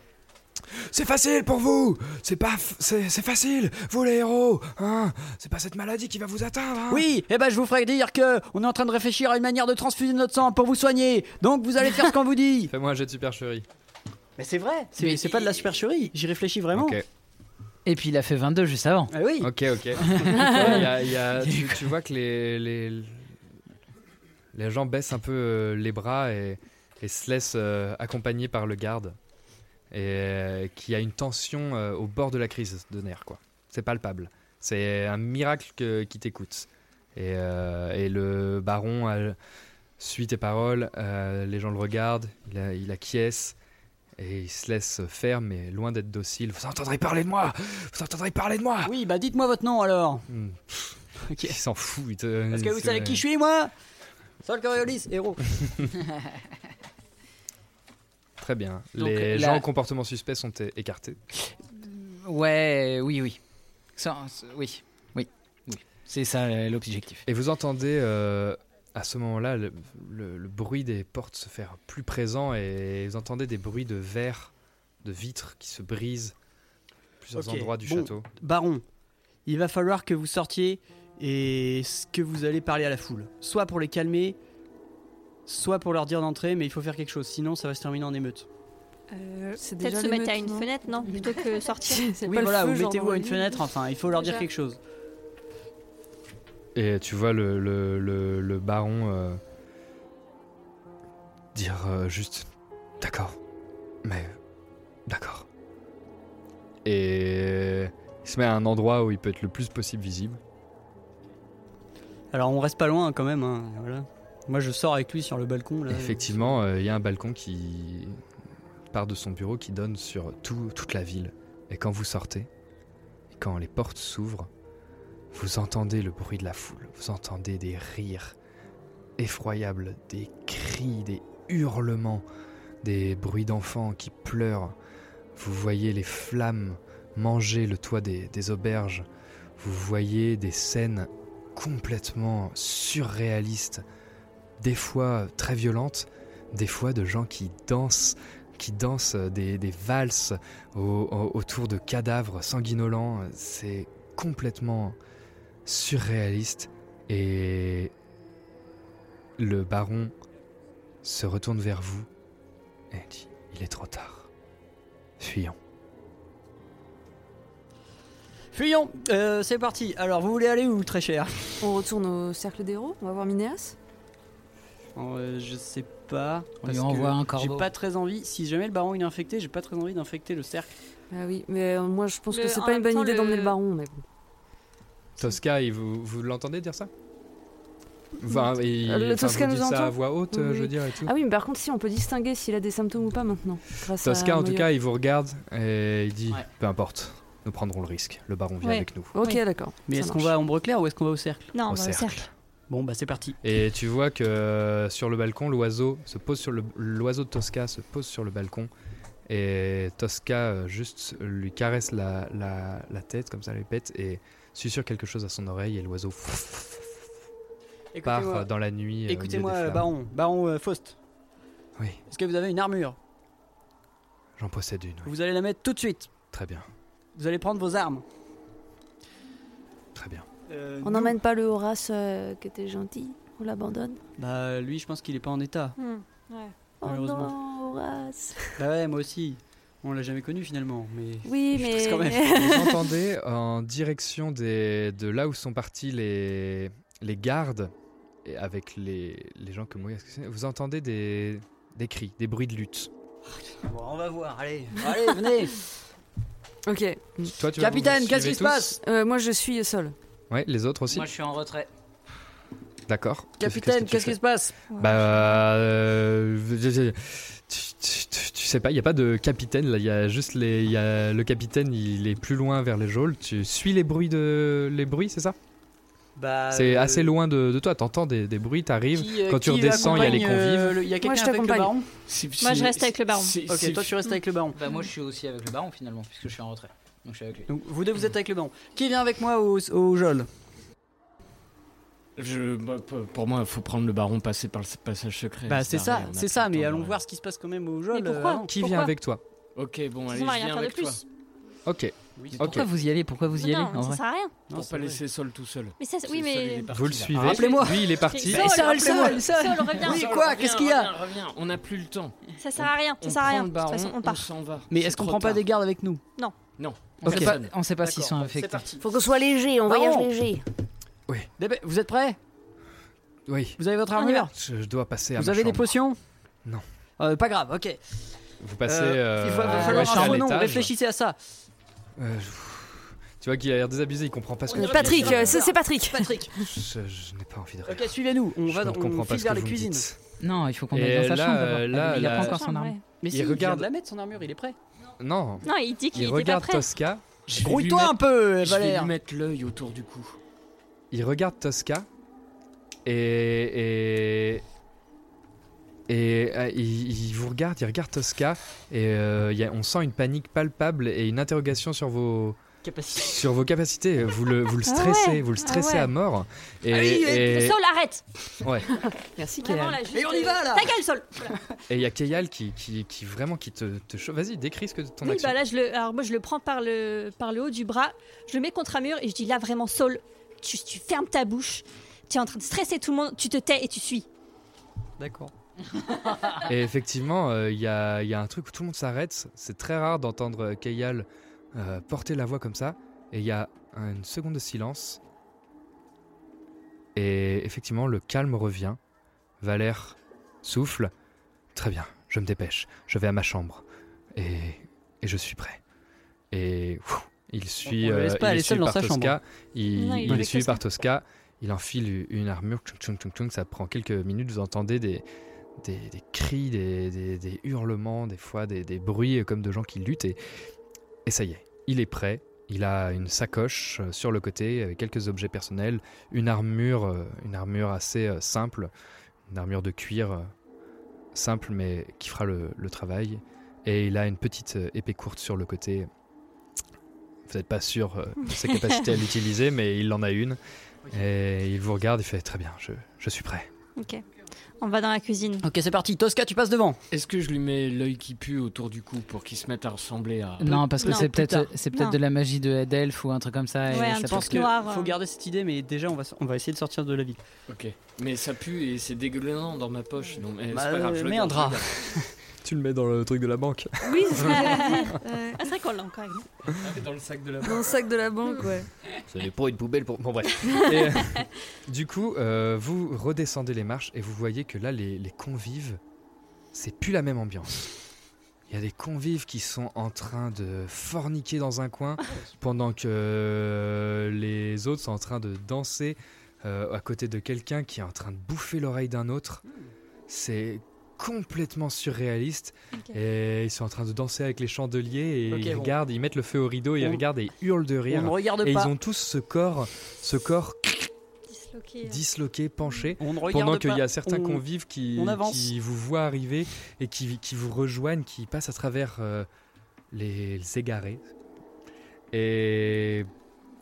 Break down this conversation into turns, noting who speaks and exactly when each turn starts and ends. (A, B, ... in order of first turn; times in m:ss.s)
0:00.7-0:07.0 A
0:06.9-0:12.7 B
0:12.7-0:13.6 A
0:14.4-0:17.0 B
0:15.0-0:15.5 C
0:16.7-0:17.0 A
0:17.8-0:19.1 C
0:19.1-0:19.5 B
0:19.4-0:23.3 A
0:20.0-0:21.9 C
0:20.2-0:20.8 B
0:24.5-0:29.2 A
0:29.9-0:39.4 A
0:40.0-0:43.6 A
0:44.2-0:48.9 A
0:48.8-0:50.3 B
0:50.3-0:53.2 A
0:51.2-0:51.6 B
0:52.5-0:53.7 B
0:54.4-0:55.4 B
0:58.4-1:01.2 A
0:59.0-0:59.6 C
1:01.7-1:03.4 C
1:04.0-1:07.2 C
1:07.2-1:14.5 A
1:15.0-1:16.3 A
1:17.2-1:18.3 A
1:17.3-1:18.8 B
1:19.4-1:24.4 B
1:25.5-1:28.5 B
1:29.1-1:32.1 D
1:29.6-1:33.6 E
1:32.2-1:34.8 B
1:34.1-1:34.4 D
1:36.7-1:39.4 A
1:41.5-1:42.5 A
1:43.0-1:43.4 A
1:44.0-1:44.4 A
1:45.1-1:45.5 A
1:46.8-1:50.4 A
1:52.3-1:56.6 B
1:55.9-1:58.2 A
1:58.9-2:02.5 A
2:03.3-2:04.5 A
2:05.3-2:08.4 A
2:09.2-2:12.2 A
2:12.8-2:14.7 A
2:15.3-2:19.1 A
2:19.6-2:23.8 A
2:24.6-2:35.0 A
2:35.6-2:37.9 A
2:39.4-2:40.1 A
2:41.0-2:42.1 A
2:42.9-2:44.3 A
2:45.2-2:45.6 A
2:48.5-2:51.6 B
2:51.6-2:53.8 E
2:54.9-3:00.7 B
2:56.6-2:57.7 C
3:01.1-3:04.0 E
3:02.3-3:03.6 D
3:05.2-3:06.9 A
3:08.2-3:11.1 A
3:08.8-3:14.7 E
3:14.0-3:19.1 A
3:18.6-3:19.4 D
3:19.1-3:20.3 E
3:19.9-3:21.5 B
3:21.5-3:22.3 D
3:21.7-3:22.3 A
3:22.7-3:23.4 B
3:23.4-3:28.7 A
3:29.3-3:37.0 A
3:37.9-3:38.5 B
3:38.0-3:39.9 A
3:39.1-3:41.0 B
3:41.8-3:42.0 A
3:42.1-3:43.0 B
3:44.4-3:45.1 A
3:45.0-3:46.1 B
3:46.3-3:46.7 A
3:47.1-3:48.0 B
3:49.9-3:50.3 A
3:50.4-3:51.2 B
3:50.8-3:54.0 E
3:54.2-3:55.7 B
3:55.8-3:56.5 D
3:56.8-3:58.5 E
3:56.8-3:57.3 B
3:58.6-4:02.5 B
4:01.2-4:02.8 E
4:02.3-4:07.7 A
4:08.2-4:12.9 A
4:13.6-4:15.6 B
4:16.7-4:17.3 E
4:17.3-4:18.8 A
4:17.6-4:18.8 B
4:18.8-4:19.9 E
4:20.3-4:21.1 A
4:20.9-4:21.7 C
4:22.9-4:24.2 A
4:23.4-4:24.6 B
4:24.7-4:25.4 D
4:24.7-4:35.4 A
4:36.2-4:37.2 B
4:36.5-4:40.8 A
4:38.9-4:41.8 B
4:39.8-4:40.2 E
4:41.0-4:41.7 E
4:42.1-4:44.0 F
4:42.4-4:43.4 D
4:43.5-4:44.6 B
4:44.5-4:47.5 C
4:47.5-4:50.3 B
4:52.2-4:57.0 F
4:55.5-4:58.5 B
4:57.9-4:58.9 D
4:58.4-4:59.2 A
4:59.6-5:01.0 F
5:00.1-5:01.0 D
5:01.6-5:02.7 A
5:02.2-5:02.6 B
5:02.4-5:04.0 C
5:03.3-5:04.4 D
5:04.5-5:05.0 B
5:04.5-5:07.7 F
5:05.8-5:06.7 D
5:06.7-5:08.9 A
5:07.1-5:10.9 B
5:08.1-5:10.0 D
5:08.8-5:09.2 F
5:09.7-5:15.4 F
5:12.4-5:14.3 D
5:14.7-5:16.0 B
5:16.6-5:17.5 F
5:17.0-5:18.7 C
5:17.0-5:18.8 B
5:18.8-5:20.4 E
5:19.7-5:20.1 B
5:21.4-5:22.2 B
5:23.3-5:23.6 A
5:23.6-5:24.3 B
5:24.0-5:24.3 D
5:24.2-5:25.8 A
5:25.2-5:26.0 B
5:27.0-5:27.8 B
5:28.4-5:30.7 A
5:28.6-5:31.2 B
5:29.5-5:30.3 C
5:32.0-5:35.4 A
5:34.5-5:36.3 B
5:34.5-5:36.5 E
5:36.4-5:40.0 A
5:37.7-5:39.8 B
5:40.2-5:42.8 C
5:40.7-5:42.4 A
5:42.1-5:42.8 D
5:42.9-5:44.6 B
5:43.1-5:43.7 A
5:45.0-5:47.0 A
5:45.4-5:46.7 D
5:47.3-5:50.2 F
5:47.3-5:48.9 B
5:50.9-5:51.9 A
5:52.8-5:54.4 A
5:55.9-6:02.4 A
6:02.6-6:03.3 B
6:02.9-6:07.6 A
6:04.6-6:05.9 D
6:06.8-6:08.0 D
6:08.4-6:08.7 A
6:09.0-6:09.8 E
6:09.4-6:11.4 D
6:09.9-6:10.7 B
6:11.7-6:15.4 A
6:15.0-6:24.1 D
6:25.0-6:25.3 B
6:26.4-6:35.0 A
6:36.9-6:38.8 A
6:39.4-6:40.9 A
6:41.5-6:45.6 A
6:46.3-6:55.0 A
6:47.6-6:49.2 B
6:49.7-6:50.6 D
6:55.6-7:00.2 A
7:01.0-7:08.7 A
7:09.3-7:10.3 A
7:11.1-7:15.9 A
7:17.3-7:20.4 A
7:20.9-7:23.5 A
7:23.8-7:24.0 D
7:24.6-7:25.5 D
7:25.4-7:26.8 B
7:26.9-7:30.7 F
7:30.4-7:34.6 C
7:30.4-7:31.5 B
7:30.8-7:31.1 D
7:33.7-7:35.0 D
7:33.7-7:37.2 B
7:37.5-7:41.9 F
7:40.5-7:42.1 B
7:42.4-7:44.7 A
7:43.8-7:45.3 E
7:44.2-7:46.3 D
7:46.6-7:47.8 F
7:47.4-7:48.7 E
7:49.1-7:55.8 A
7:50.5-7:51.2 D
7:56.5-7:57.7 A
7:58.5-8:09.4 A
8:10.1-8:20.9 A
8:15.3-8:15.7 B
8:17.9-8:18.7 B
8:21.3-8:22.0 D
8:21.8-8:29.3 A
8:23.0-8:24.4 B
8:24.9-8:25.5 B
8:29.9-8:31.0 A
8:32.1-8:33.1 A